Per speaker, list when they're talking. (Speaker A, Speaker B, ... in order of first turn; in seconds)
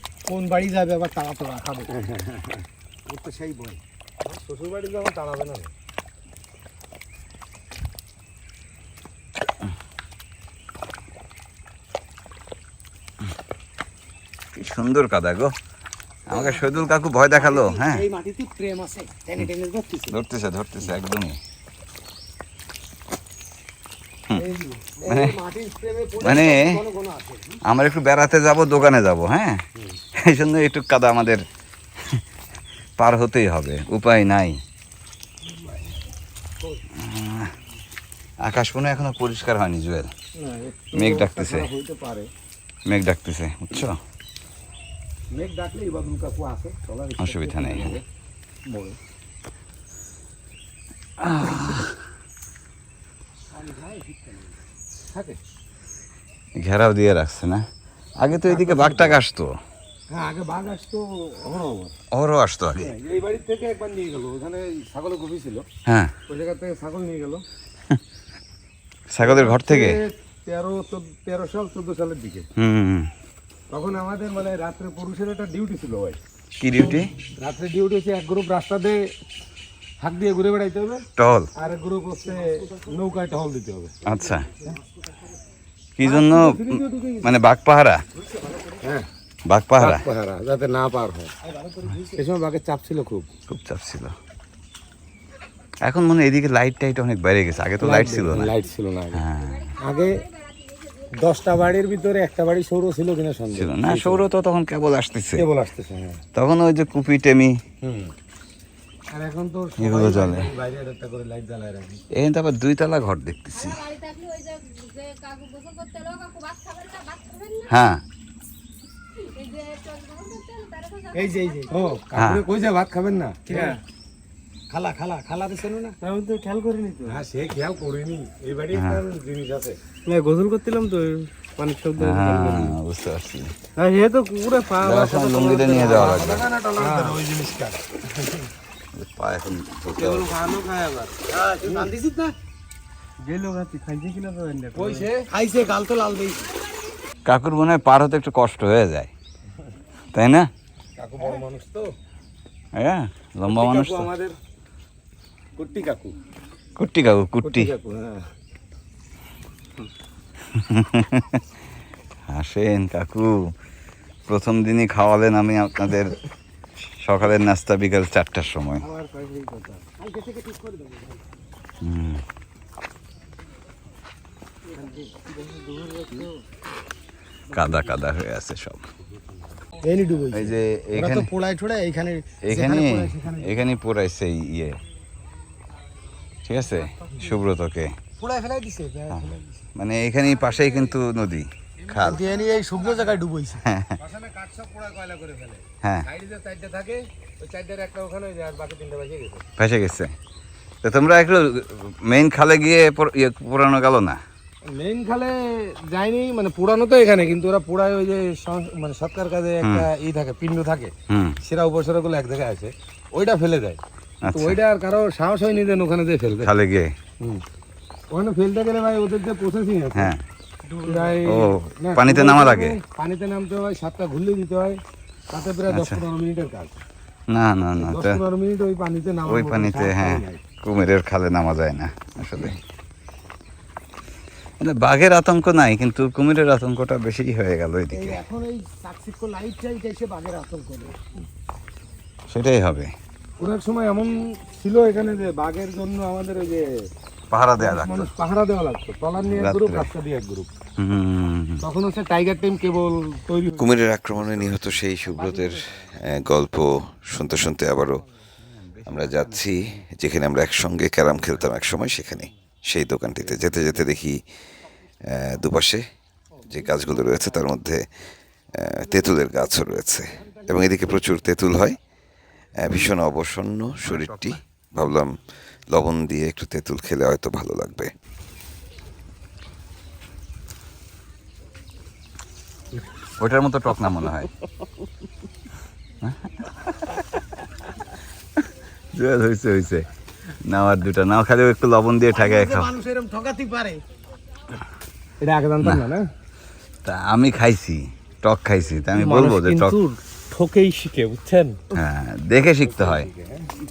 Speaker A: 0.2-1.9, 3.1-3.8, 16.3-20.2, 24.3-27.6, 53.5-54.5, 88.2-88.8, 91.4-92.2, 121.1-121.9, 124.7-126.0, 141.3-142.4, 145.3-146.5, 170.0-171.2, 179.8-183.6, 188.2-189.6, 192.0-193.6, 237.9-241.2, 292.1-293.8
Speaker B: 1.9-2.5, 4.2-5.7, 40.4-42.3, 45.3-48.0, 48.6-49.0, 55.1-55.4, 58.5-59.2, 60.1-61.9, 62.8-65.7, 66.3-67.4, 69.2-72.5, 73.7-76.2, 77.4-79.1, 80.0-84.0, 86.0-87.4, 88.8-89.1, 89.8-91.3, 92.1-93.3, 97.8-99.2, 99.8-100.2, 101.1-104.2, 105.4-106.2, 107.8-108.1, 109.1-112.0, 121.7-123.8, 127.1-129.8, 135.0-137.8, 144.8-145.2, 151.0-151.9, 153.4-154.4, 155.6-156.2, 157.4-158.3, 190.5-191.0, 191.8-193.2, 194.0-199.5, 204.7-216.5, 218.1-220.1, 220.8-226.8, 227.8-230.4, 243.4-246.9, 247.6-250.5, 251.6-253.7, 295.2-296.1, 298.9-301.8, 302.6-303.5
Speaker C: 14.5-15.5, 16.3-18.1, 20.1-21.4, 25.0-25.4, 26.2-26.8, 27.6-29.6, 30.1-31.5, 33.0-34.6, 37.0-37.5, 38.4-40.1, 40.9-41.7, 42.9-44.0, 47.2-48.0, 51.2-52.0, 56.6-57.6, 58.2-59.6, 62.1-62.9, 65.9-66.1, 69.1-70.0, 72.6-73.1, 76.6-77.1, 81.2-81.5, 84.0-84.5, 86.0-88.0, 89.5-90.0, 93.5-94.1, 95.8-98.5, 99.1-99.8, 103.5-105.5, 106.3-107.6, 109.8-110.5, 112.1-113.8, 117.7-118.0, 122.2-122.5, 128.8-129.0, 132.0-133.5, 134.8-136.5, 138.9-140.4, 147.2-149.1, 150.1-150.5, 152.8-154.1, 156.8-157.7, 160.5-161.4, 162.3-163.5, 164.2-166.2, 167.0-168.8, 171.8-172.2, 177.5-178.8, 180.3-181.3, 182.4-184.8, 186.5-188.0, 189.1-192.2, 193.6-193.9, 199.6-200.1, 200.8-204.2, 211.1-211.4, 214.2-214.6, 216.4-216.9, 219.9-220.2, 221.2-222.8, 225.7-226.0, 227.3-228.2, 229.2-232.6, 234.6-238.2, 242.3-242.9, 247.3-248.1, 249.2-249.9, 250.8-251.6, 258.5-259.8, 273.9-274.3, 283.2-284.3, 286.0-287.4, 288.4-289.9, 290.4-292.7, 296.8-299.8, 301.7-303.1
Speaker D: 113.7-117.7, 119.2-121.1, 123.5-123.8, 126.0-127.2, 130.0-132.8, 133.8-136.0, 136.8-137.2, 139.9-141.1, 143.2-145.1, 168.8-169.8, 174.7-176.4, 177.5-177.8, 220.7-221.2
Speaker E: 253.5-258.0, 258.9-264.2, 265.0-265.9, 266.5-267.9, 268.5-271.8, 272.6-275.2, 275.7-277.9